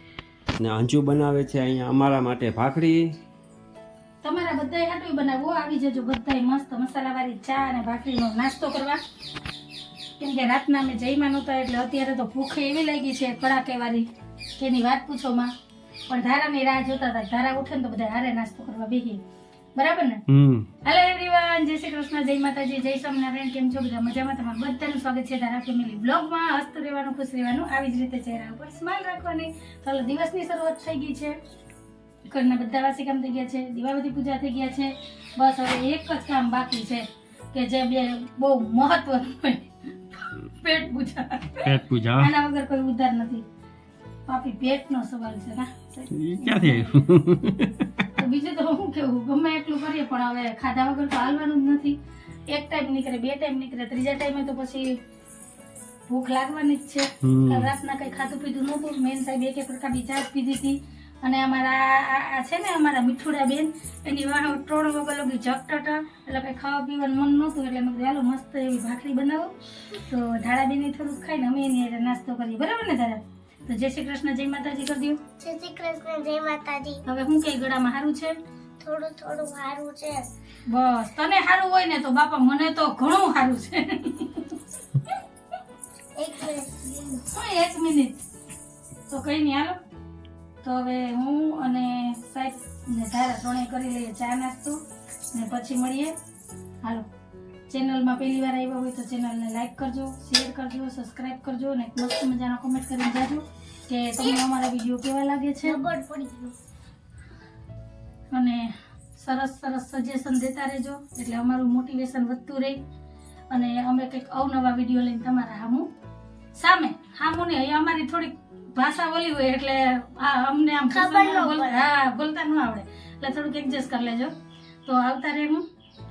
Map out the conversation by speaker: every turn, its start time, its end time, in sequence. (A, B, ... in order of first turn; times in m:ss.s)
0:00.6-0:03.1 A
0:04.2-0:09.0 B
0:10.2-0:15.5 B
0:16.1-0:19.2 B
0:19.7-0:20.2 B
0:20.3-0:20.7 A
0:20.8-0:31.4 B
0:32.2-0:43.4 B
0:41.6-0:42.3 A
0:44.3-0:47.0 B
0:46.1-0:47.9 A
0:48.2-0:52.0 B
0:52.5-0:55.0 B
0:56.1-1:09.5 B
0:57.2-0:57.7 A
1:10.0-1:15.2 B
1:15.4-1:17.0 C
1:17.0-1:18.4 B
1:18.8-1:20.3 C
1:20.7-1:24.6 B
1:26.2-1:27.2 C
1:27.3-1:28.2 B
1:29.1-1:29.8 B
1:30.6-1:34.8 B
1:35.3-1:36.1 B
1:37.7-1:45.8 B
1:45.6-1:46.5 C
1:48.3-1:52.8 B
1:53.5-1:55.9 B
1:56.5-2:04.3 B
2:00.9-2:01.9 C
2:04.8-2:05.6 B